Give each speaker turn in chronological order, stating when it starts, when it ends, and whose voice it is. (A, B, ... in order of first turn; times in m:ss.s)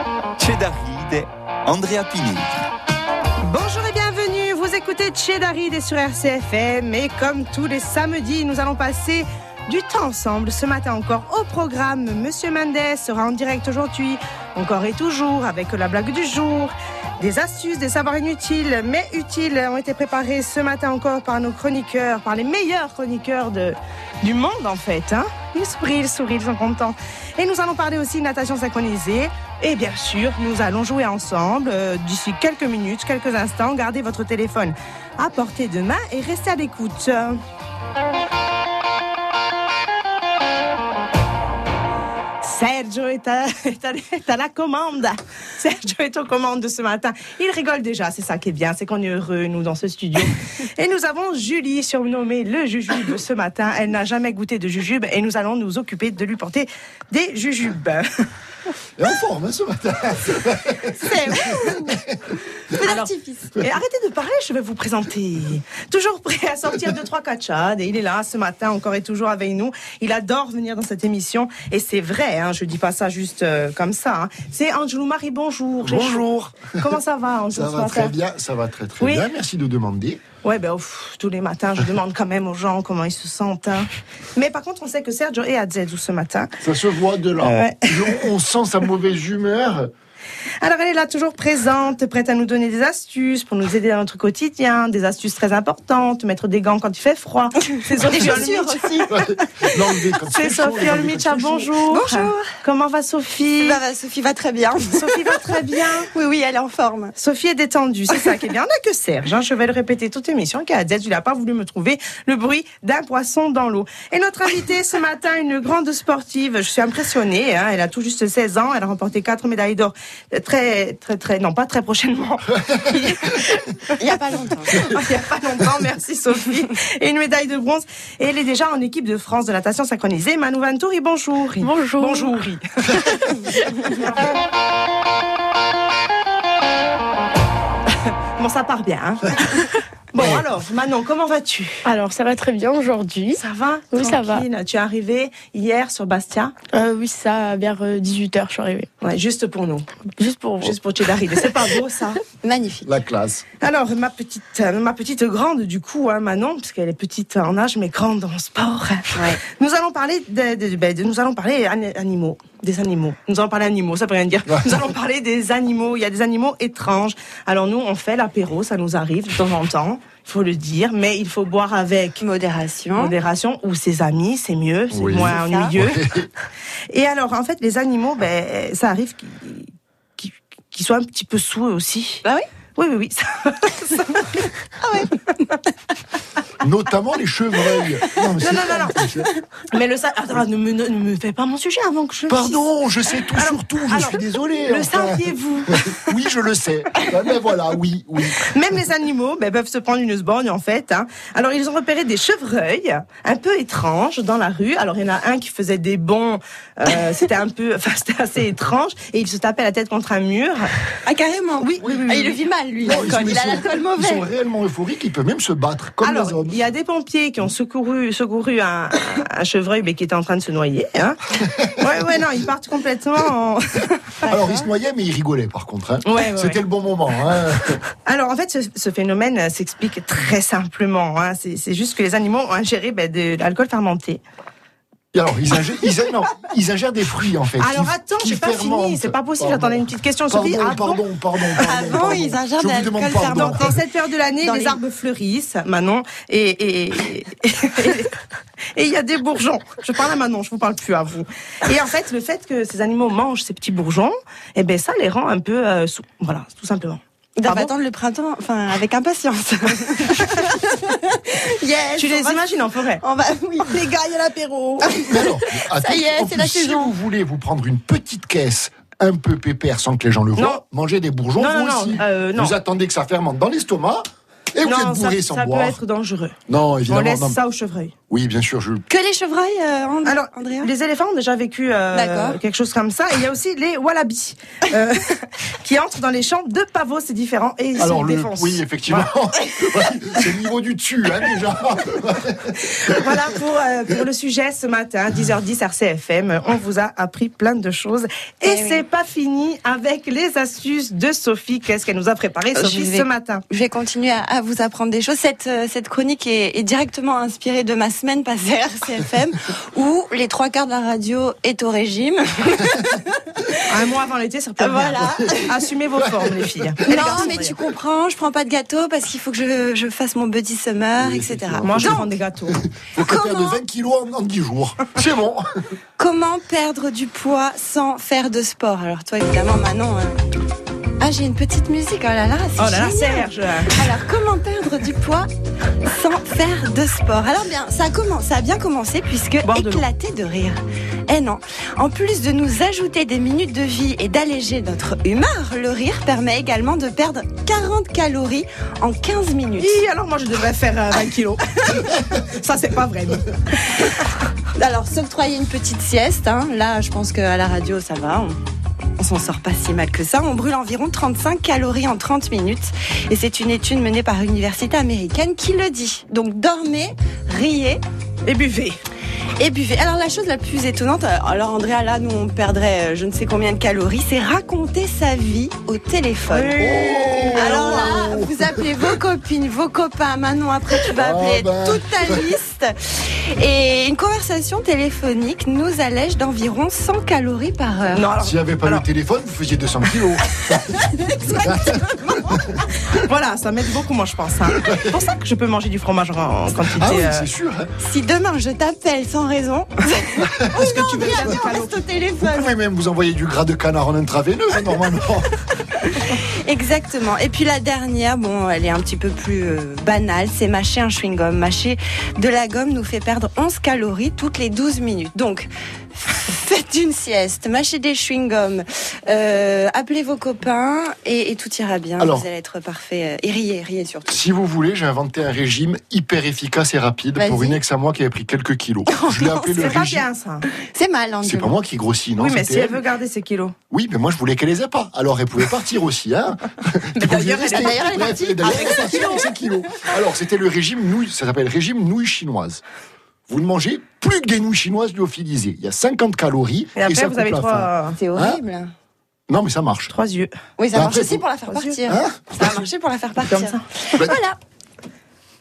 0:00.4-0:02.6 A
0:03.4-0:37.4 B
0:42.4-0:58.0 B
0:59.0-1:01.9 C
1:01.0-1:02.0 D
1:02.7-1:03.5 D
1:03.6-1:16.2 B
1:15.8-1:17.0 C
1:16.8-1:18.1 B
1:17.5-1:20.2 C
1:20.4-1:26.5 B
1:26.6-1:29.9 C
1:27.4-1:28.2 B
1:30.6-1:39.1 B
1:38.0-1:38.3 C
1:38.0-1:39.1 D
1:39.1-1:41.7 C
1:40.3-1:43.8 B
1:41.9-1:42.6 D
1:43.6-1:45.5 D
1:44.9-1:46.1 B
1:46.1-1:47.1 D
1:47.2-2:03.5 B
2:04.0-2:04.9 D
2:04.7-2:13.1 B
2:11.6-2:12.3 E
2:18.4-2:21.8 B
2:21.8-2:24.4 E
2:23.4-2:26.5 B
2:26.7-2:28.9 E
2:29.0-2:29.9 B
2:30.2-2:30.8 E
2:30.6-2:32.2 B
2:32.4-2:32.9 D
2:32.8-2:33.4 C
2:33.6-2:52.2 B
2:39.1-2:39.4 D
2:52.2-2:53.2 D
2:53.0-2:56.0 B
2:54.9-2:56.3 C
2:55.3-2:55.7 D
2:56.9-3:02.2 B
3:02.8-3:04.5 B
3:04.8-3:05.1 D
3:06.6-3:09.3 C
3:08.4-3:09.0 B
3:09.7-3:12.6 B
3:12.3-3:18.4 C
3:13.4-3:15.9 B
3:18.5-3:30.7 B
3:31.0-3:34.3 D
3:31.6-3:32.4 B
3:32.8-3:36.5 C
3:36.0-3:41.2 B
3:41.8-3:44.3 B
3:44.3-3:47.8 C
3:44.3-3:44.6 D
3:46.1-3:46.6 B
3:48.0-3:54.2 B
3:55.1-4:03.7 C
3:57.6-4:01.0 B
4:01.6-4:03.8 D
4:03.3-4:08.1 B
4:04.4-4:04.8 D
4:08.7-4:17.7 B
4:17.4-4:23.8 D
4:20.0-4:20.3 B
4:22.0-4:23.0 B
4:23.6-4:25.0 B
4:24.9-4:26.9 D
4:25.0-4:35.8 C
4:30.4-4:30.6 B
4:31.4-4:32.5 B
4:34.6-4:36.4 B
4:36.5-4:37.4 C
4:36.9-4:37.9 B
4:38.1-4:38.8 C
4:38.9-4:40.7 D
4:40.0-4:49.1 B
4:41.9-4:42.4 D
4:47.8-4:53.0 C
4:52.7-5:03.4 B
4:58.4-4:58.8 D
5:02.5-5:13.5 D
5:13.7-5:17.6 B
5:14.6-5:15.7 D
5:16.8-5:22.1 D
5:21.0-5:25.4 C
5:21.6-5:22.6 B
5:23.0-5:23.6 D
5:26.0-5:30.2 D
5:31.0-5:35.3 D
5:32.6-5:33.7 B
5:35.9-5:40.6 D
5:39.4-5:39.8 B
5:41.1-5:49.8 D
5:49.6-5:53.3 B
5:54.6-5:58.4 D
5:59.0-6:07.8 D
6:08.2-6:08.8 B
6:09.4-6:16.7 D
6:16.3-6:18.0 B
6:16.6-6:18.8 C
6:17.3-6:28.1 D
6:20.9-6:22.2 C
6:27.9-6:28.8 B
6:28.2-6:30.8 C
6:31.2-6:32.1 D
6:31.4-6:32.4 C
6:32.9-6:37.3 B
6:34.6-6:34.9 C
6:36.7-6:37.7 C
6:37.8-6:42.5 D
6:40.2-6:40.7 C
6:40.5-6:41.8 B
6:42.2-6:45.3 C
6:46.4-7:04.1 D
7:02.0-7:02.3 C
7:04.1-7:10.0 C
7:07.1-7:07.6 D
7:08.9-7:09.9 D
7:09.6-7:10.4 B
7:10.5-7:11.6 D
7:11.2-7:12.8 C
7:12.2-7:13.5 B
7:13.7-7:22.6 C
7:17.0-7:19.2 B
7:17.5-7:19.3 D
7:23.3-7:28.4 C
7:26.8-7:28.0 B
7:28.0-7:28.7 D
7:29.3-7:29.9 C
7:29.9-7:30.3 B
7:30.6-7:34.4 D
7:30.7-7:31.2 C
7:31.5-7:31.8 B
7:31.8-7:32.5 C
7:33.2-7:33.7 B